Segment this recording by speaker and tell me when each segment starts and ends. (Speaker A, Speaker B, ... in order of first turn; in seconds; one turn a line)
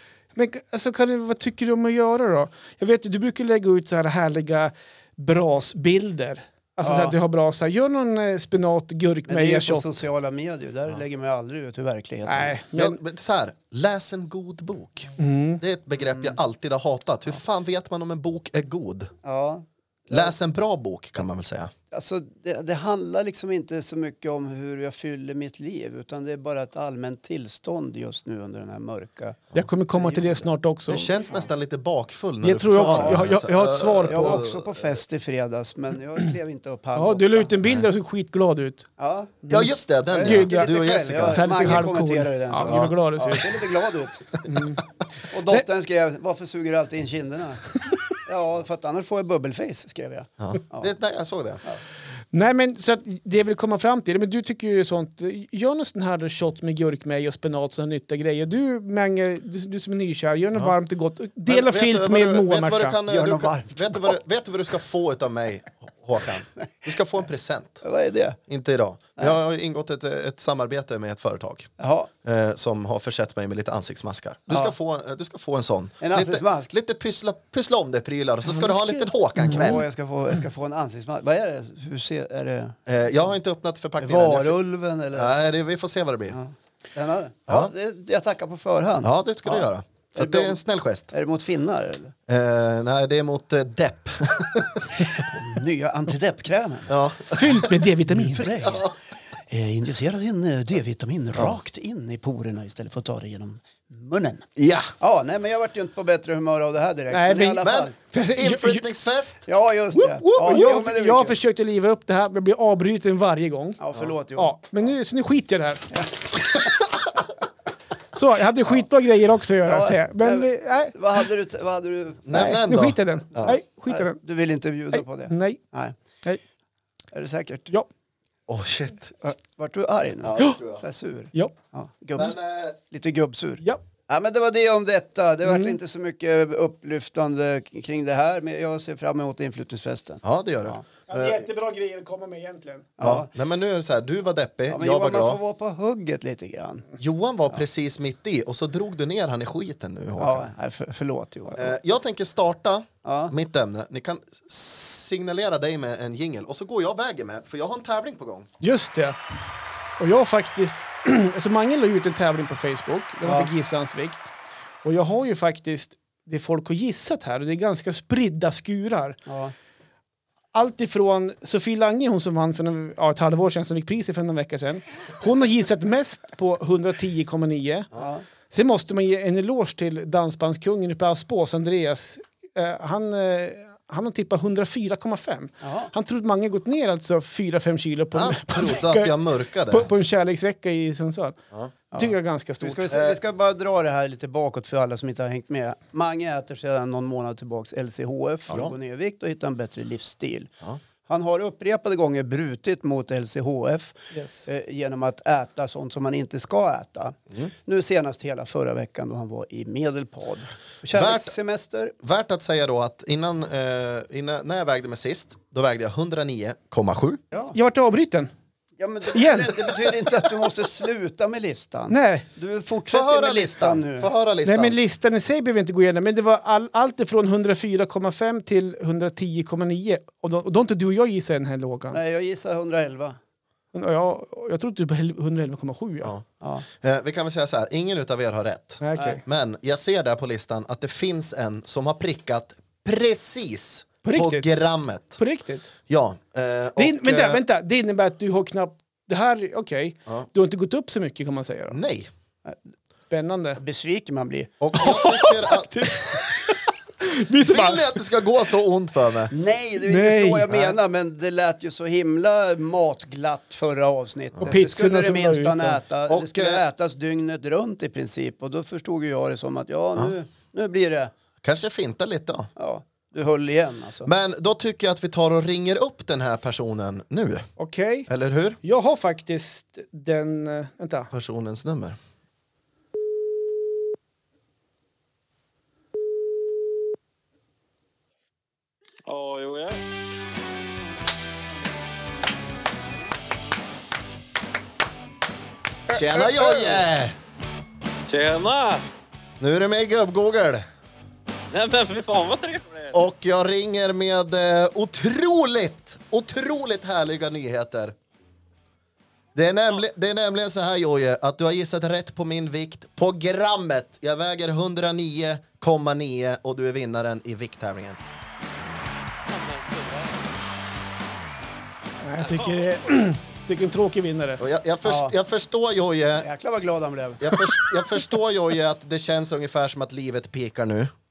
Speaker A: 0.3-10.0
Speaker B: 6.8-7.2
Speaker B: 9.3-12.6
Speaker A: 12.3-13.0
Speaker C: 12.7-19.1
Speaker A: 15.2-15.6
Speaker B: 16.1-16.4
Speaker B: 19.2-20.3
Speaker C: 20.1-21.7
Speaker B: 21.9-30.5
Speaker A: 29.6-31.1
Speaker C: 30.9-34.7
Speaker A: 32.4-34.4
Speaker B: 32.8-33.2
Speaker B: 34.1-37.5
Speaker A: 37.0-38.9
Speaker B: 39.0-39.4
Speaker A: 39.5-39.7
Speaker C: 39.5-41.9
Speaker B: 40.1-44.4
Speaker A: 40.2-43.6
Speaker A: 44.5-44.8
Speaker B: 45.3-50.9
Speaker C: 50.4-51.6
Speaker A: 52.3-63.0
Speaker C: 61.5-67.8
Speaker B: 63.1-64.2
Speaker B: 67.8-68.4
Speaker C: 68.5-71.7
Speaker B: 71.8-72.1
Speaker C: 72.2-79.8
Speaker B: 74.5-74.7
Speaker B: 76.0-76.7
Speaker A: 78.5-79.8
Speaker B: 79.4-82.9
Speaker C: 82.9-84.6
Speaker B: 84.0-85.3
Speaker C: 85.1-86.4
Speaker B: 86.3-90.6
Speaker C: 89.0-91.1
Speaker B: 91.1-92.2
Speaker C: 92.3-95.3
Speaker B: 95.2-96.9
Speaker C: 96.9-97.8
Speaker A: 97.3-98.5
Speaker B: 98.1-98.9
Speaker C: 98.5-99.0
Speaker B: 99.5-104.5
Speaker C: 104.6-104.9
Speaker B: 105.0-108.0
Speaker A: 107.1-108.8
Speaker C: 107.6-109.4
Speaker B: 109.5-111.4
Speaker A: 110.2-113.8
Speaker B: 113.8-114.6
Speaker A: 114.4-115.9
Speaker A: 118.1-121.2
Speaker B: 119.7-122.5
Speaker C: 122.3-123.6
Speaker A: 122.3-124.2
Speaker B: 123.9-126.0
Speaker A: 124.9-125.6
Speaker B: 127.1-127.8
Speaker C: 128.5-129.2
Speaker B: 129.2-140.8
Speaker C: 130.2-130.8
Speaker C: 132.2-132.8
Speaker A: 135.4-135.8
Speaker C: 140.2-141.4
Speaker A: 141.1-142.9
Speaker B: 143.0-143.3
Speaker C: 143.0-145.4
Speaker B: 144.7-146.9
Speaker C: 147.0-150.5
Speaker B: 150.2-151.8
Speaker C: 151.6-158.5
Speaker B: 153.0-153.3
Speaker A: 158.6-159.2
Speaker A: 160.0-164.3
Speaker B: 163.2-163.5
Speaker A: 164.8-169.2
Speaker B: 169.3-169.5
Speaker A: 170.5-177.9
Speaker B: 178.0-178.2
Speaker A: 178.5-189.1
Speaker B: 185.6-185.9
Speaker C: 188.1-189.9
Speaker A: 189.7-191.4
Speaker B: 191.9-200.5
Speaker A: 192.0-193.0
Speaker C: 192.9-193.2
Speaker B: 201.1-212.0
Speaker A: 204.1-204.5
Speaker C: 210.9-211.3
Speaker C: 212.0-217.2
Speaker A: 217.5-218.3
Speaker B: 218.8-224.1
Speaker A: 219.1-219.9
Speaker A: 221.9-222.2
Speaker C: 222.9-224.8
Speaker A: 224.4-232.0
Speaker B: 231.9-233.2
Speaker A: 233.7-236.1
Speaker C: 236.0-245.2
Speaker A: 238.8-239.2
Speaker B: 239.0-239.2
Speaker A: 244.0-244.5
Speaker A: 245.2-245.7
Speaker C: 245.9-247.4
Speaker A: 246.8-251.8
Speaker C: 251.7-252.1
Speaker A: 253.1-253.6
Speaker B: 253.6-254.5
Speaker C: 254.6-256.2
Speaker A: 254.8-258.0
Speaker C: 257.4-259.3
Speaker B: 259.3-271.1
Speaker A: 259.8-260.5
Speaker A: 264.5-265.8
Speaker C: 266.1-266.6
Speaker C: 271.4-272.5
Speaker B: 272.6-274.1
Speaker C: 274.1-277.5
Speaker A: 277.6-278.1
Speaker C: 278.1-278.6
Speaker A: 278.6-281.1
Speaker C: 281.1-282.0
Speaker D: 289.1-289.8
Speaker C: 295.9-297.1
Speaker B: 296.0-296.8
Speaker D: 298.1-298.8
Speaker C: 299.4-300.6
Speaker D: 301.5-303.0
Speaker C: 302.9-307.9
Speaker C: 309.4-318.0
Speaker D: 319.3-320.1
Speaker A: 322.0-324.4
Speaker C: 324.4-326.3
Speaker B: 324.8-325.2
Speaker B: 326.2-327.5
Speaker C: 327.2-330.9